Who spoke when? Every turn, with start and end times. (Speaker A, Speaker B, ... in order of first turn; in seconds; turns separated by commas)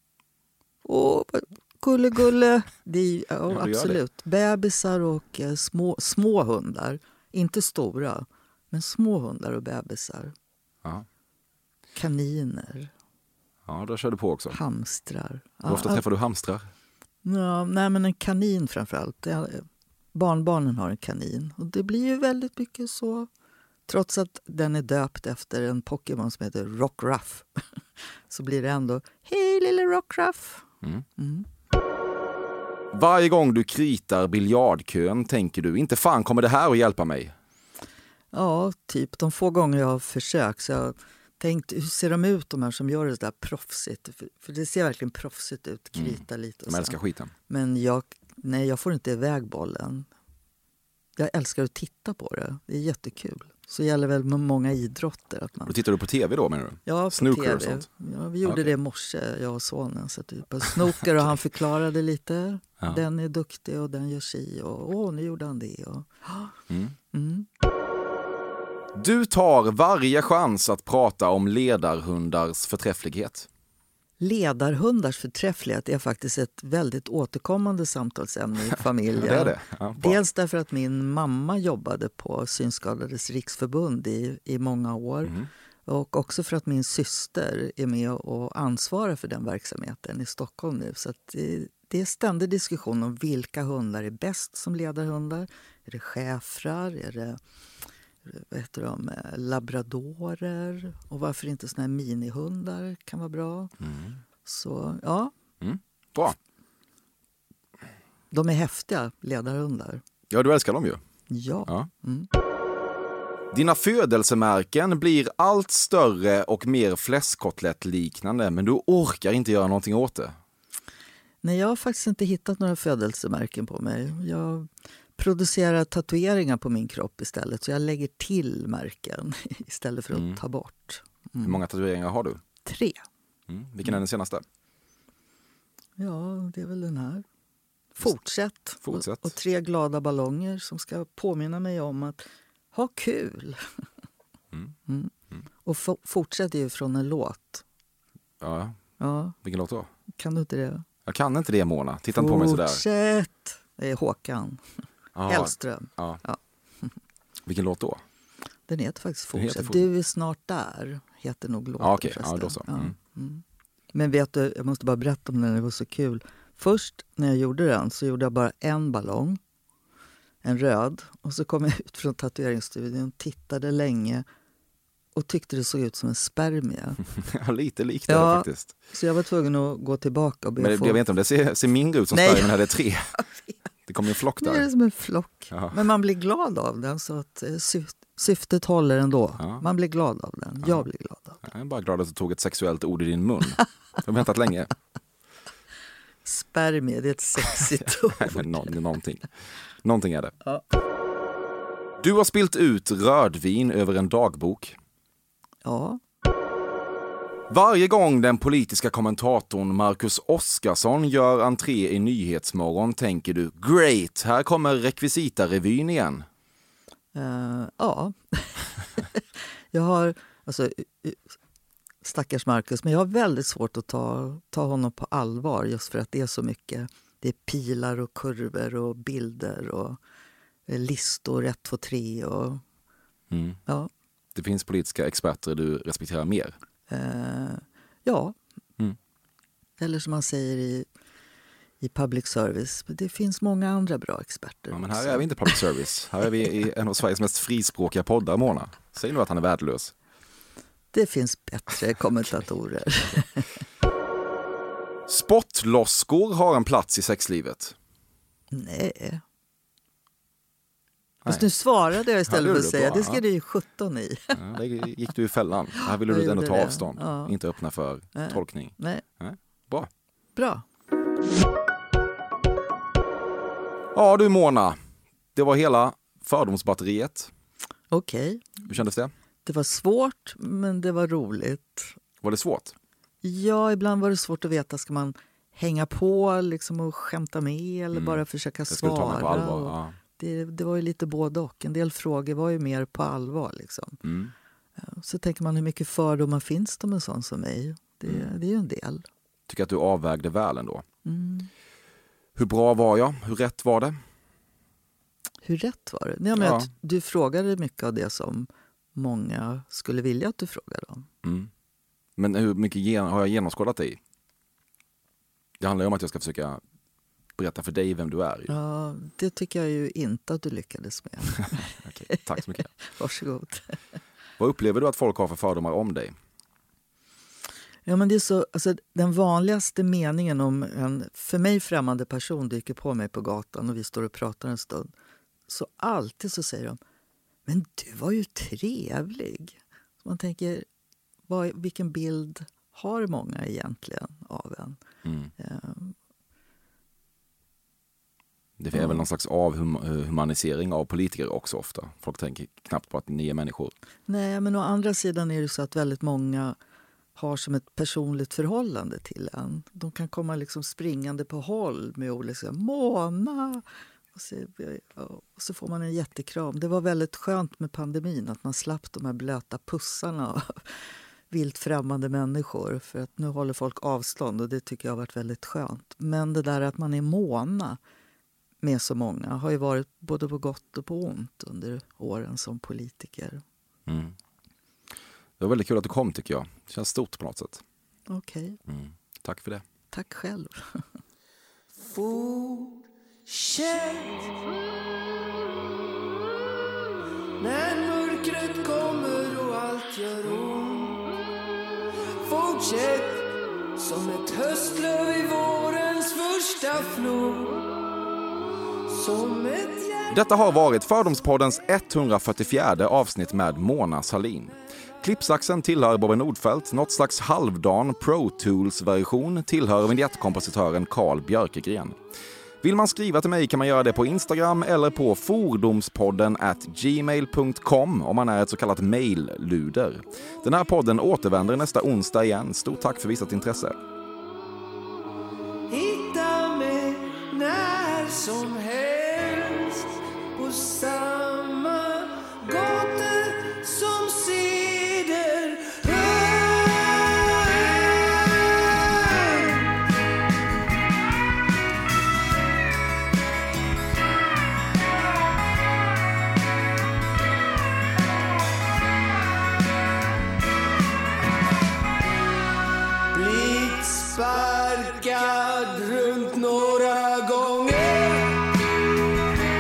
Speaker A: 0.8-10.3, Speaker B: 3.5-4.0, Speaker A: 11.9-12.9, Speaker B: 13.7-14.6, Speaker A: 14.5-16.0, Speaker B: 15.7-16.7, Speaker A: 17.2-23.3, Speaker A: 23.9-27.6, Speaker A: 28.3-30.6, Speaker A: 31.2-31.5, Speaker B: 32.9-37.3, Speaker A: 38.3-47.0, Speaker B: 46.0-47.3, Speaker A: 47.5-50.1, Speaker A: 51.2-55.8, Speaker B: 55.7-57.9, Speaker A: 56.9-66.5, Speaker B: 58.5-58.7, Speaker B: 66.7-67.0, Speaker A: 67.1-67.5, Speaker B: 69.0-73.5, Speaker A: 74.2-85.3, Speaker B: 79.2-80.2, Speaker A: 85.9-97.4, Speaker A: 98.3-103.7, Speaker B: 103.8-104.2, Speaker A: 104.5-105.3, Speaker B: 105.6-106.4, Speaker A: 108.3-110.0, Speaker B: 110.3-111.0, Speaker A: 111.3-112.3, Speaker B: 113.5-120.4, Speaker A: 121.4-131.6, Speaker B: 130.1-130.4, Speaker B: 131.4-132.4, Speaker A: 132.7-133.0, Speaker B: 133.5-134.4, Speaker A: 136.0-137.2, Speaker A: 138.0-143.7, Speaker B: 138.8-139.3, Speaker A: 145.6-147.6, Speaker B: 148.4-148.8, Speaker A: 149.0-149.4, Speaker B: 149.4-149.9, Speaker A: 150.2-150.8, Speaker B: 151.1-152.8, Speaker A: 152.2-154.6, Speaker B: 155.2-156.2, Speaker A: 155.3-156.9, Speaker B: 157.5-158.0, Speaker A: 158.7-163.4, Speaker B: 159.3-159.8, Speaker B: 161.8-162.9, Speaker A: 163.9-169.4, Speaker A: 170.4-174.2, Speaker A: 175.2-177.0, Speaker B: 177.2-178.7, Speaker A: 178.1-181.0, Speaker B: 180.6-183.2, Speaker A: 182.1-182.6, Speaker A: 183.2-183.5, Speaker B: 183.9-184.7, Speaker A: 184.4-191.4, Speaker B: 185.5-185.8, Speaker B: 189.4-189.6, Speaker B: 190.6-190.9, Speaker B: 191.4-194.7, Speaker A: 196.2-198.7, Speaker B: 197.8-199.3, Speaker B: 199.8-200.3, Speaker B: 202.0-204.8, Speaker A: 205.6-206.0, Speaker B: 207.5-216.3, Speaker A: 217.1-221.4, Speaker A: 222.0-230.0, Speaker A: 230.7-232.6, Speaker B: 233.3-233.6, Speaker B: 234.3-236.6, Speaker A: 236.9-238.4, Speaker A: 239.8-240.9, Speaker A: 241.8-245.6, Speaker B: 244.7-249.9, Speaker A: 250.9-253.5, Speaker B: 255.1-257.8, Speaker A: 258.5-259.2, Speaker A: 261.3-264.4, Speaker B: 262.3-263.2, Speaker B: 264.3-269.9, Speaker A: 265.8-267.4, Speaker A: 268.1-269.0, Speaker A: 270.4-270.6, Speaker B: 273.9-274.8, Speaker B: 275.4-277.3, Speaker A: 277.9-278.5, Speaker B: 278.7-279.1, Speaker A: 279.5-282.0, Speaker B: 282.2-282.8, Speaker A: 283.2-294.0, Speaker B: 287.9-290.0, Speaker B: 294.0-294.3, Speaker A: 294.8-299.0, Speaker B: 299.5-300.8, Speaker A: 301.1-301.5, Speaker B: 302.4-304.0, Speaker A: 305.4-311.1, Speaker B: 306.4-306.7, Speaker B: 311.2-311.5, Speaker B: 312.2-314.0, Speaker B: 315.6-316.6, Speaker B: 317.4-318.5, Speaker A: 318.5-323.8, Speaker B: 321.5-322.7, Speaker B: 324.4-326.1, Speaker A: 327.9-334.9, Speaker A: 335.5-336.8, Speaker A: 337.5-340.7, Speaker A: 341.3-344.8, Speaker B: 345.1-345.3, Speaker A: 345.4-345.9, Speaker B: 348.6-353.7, Speaker A: 348.7-349.1, Speaker A: 354.1-356.6, Speaker A: 357.2-370.7, Speaker A: 371.3-377.8, Speaker A: 378.6-383.4, Speaker B: 383.9-384.1, Speaker B: 385.4-387.6, Speaker A: 388.1-388.6, Speaker B: 388.7-389.6, Speaker A: 389.9-390.8, Speaker C: 391.7-394.3, Speaker C: 397.4-401.1, Speaker C: 402.2-407.7, Speaker C: 408.9-410.1, Speaker B: 410.1-422.0, Speaker B: 422.6-433.8, Speaker C: 435.7-449.7, Speaker C: 463.1-468.4